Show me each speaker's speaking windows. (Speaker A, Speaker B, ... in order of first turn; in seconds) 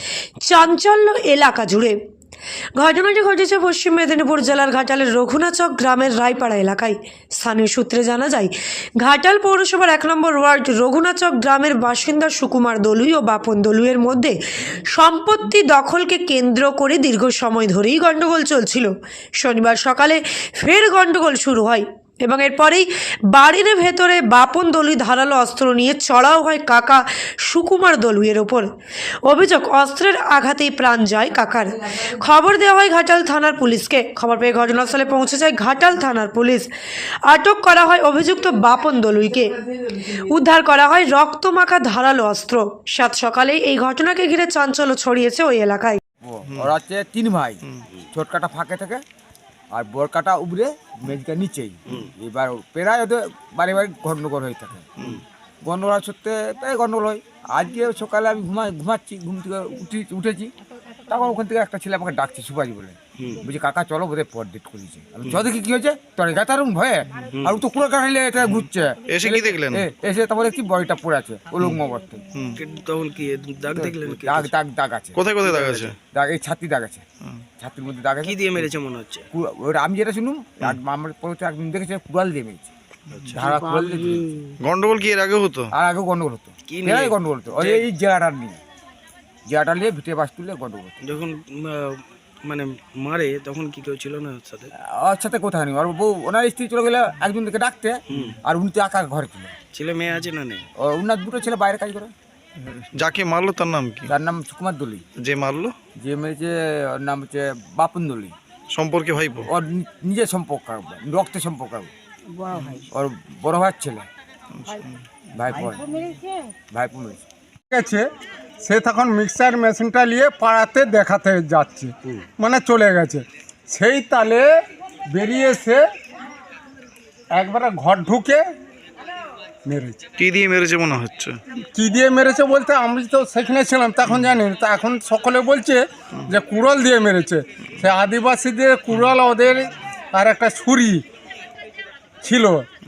Speaker A: 0.4-2.0, 2.8-28.7, 29.2-36.7, 37.2-46.0
Speaker B: 46.2-49.0, 49.7-54.9, 55.6-60.5, 61.1-72.2, 73.7-75.2, 76.1-77.0, 77.6-78.7, 79.3-82.7, 83.3-84.3, 85.7-88.6, 89.5-90.9, 94.7-99.5, 100.8-102.1, 104.1-105.0, 106.0-108.3, 109.5-111.9, 112.9-114.1, 115.3-115.8, 116.7-117.2
Speaker C: 63.2-63.4, 67.3-67.7, 72.5-74.5, 75.4-75.9, 78.2-79.3, 83.1-84.5, 86.7-87.8, 91.0-94.7, 98.1-98.4, 99.7-100.6
Speaker D: 69.1-69.9, 72.3-72.6, 75.1-76.0, 83.2-83.5, 84.6-85.7, 102.8-104.1, 105.2-105.7, 108.7-109.5, 112.5-112.8, 114.5-115.0, 130.2-131.4, 134.1-134.3
Speaker E: 117.7-118.0, 118.6-124.5, 125.1-125.8, 127.3-128.4, 129.7-130.1, 131.7-141.0, 142.2-142.7